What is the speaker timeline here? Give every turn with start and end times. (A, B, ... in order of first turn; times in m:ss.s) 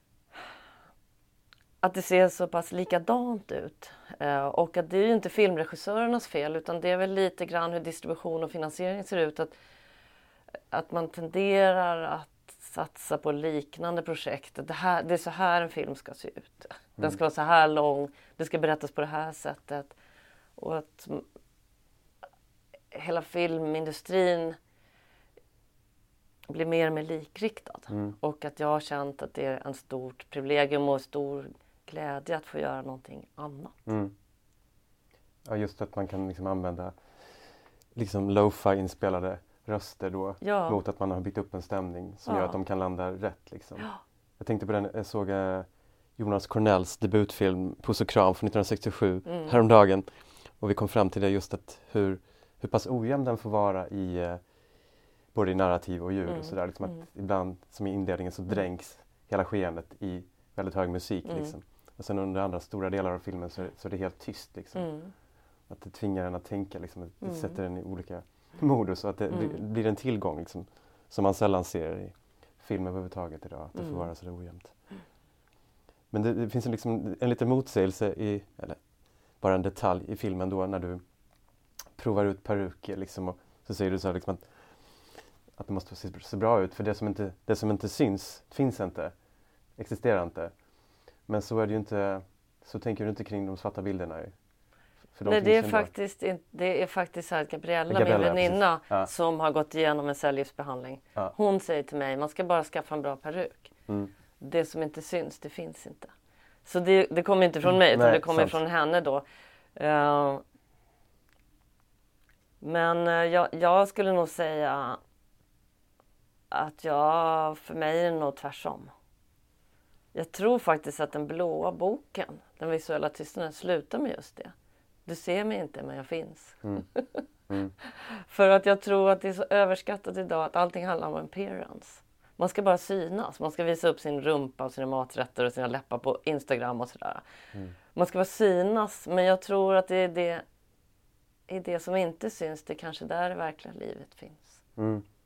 0:01.8-0:09.5 A
0:10.7-0:19.9 A
0:20.6-0:21.2 A
0:22.9-0:24.6 A
0:26.5-0:33.8 A
0:27.9-0:28.1 B
0:33.9-0:34.1 B
0:35.4-0:37.2 B
0:37.9-0:50.1 B
0:40.4-0:40.8 A
0:42.2-0:42.6 A
0:49.2-0:49.6 A
0:50.6-0:54.4 B
0:55.3-1:04.9 B
0:56.2-0:57.0 A
1:01.2-1:01.5 A
1:04.7-1:05.1 A
1:05.7-1:14.8 B
1:07.2-1:07.6 A
1:09.3-1:09.6 A
1:13.8-1:14.1 A
1:16.1-1:18.8 B
1:19.4-1:21.0 B
1:21.9-1:29.1 B
1:29.8-1:30.5 B
1:31.2-1:34.3 B
1:35.1-1:35.9 B
1:35.2-1:43.7 A
1:37.9-1:39.1 B
1:44.4-1:46.1 A
1:46.6-1:49.2 A
1:47.9-1:48.6 B
1:49.8-1:50.4 A
1:52.6-1:55.0 A
1:56.5-1:58.9 A
2:00.1-2:04.5 A
2:05.0-2:07.2 A
2:07.5-2:07.7 B
2:07.8-2:17.2 A
2:17.9-2:20.4 A
2:21.5-2:24.6 A
2:24.8-2:25.0 B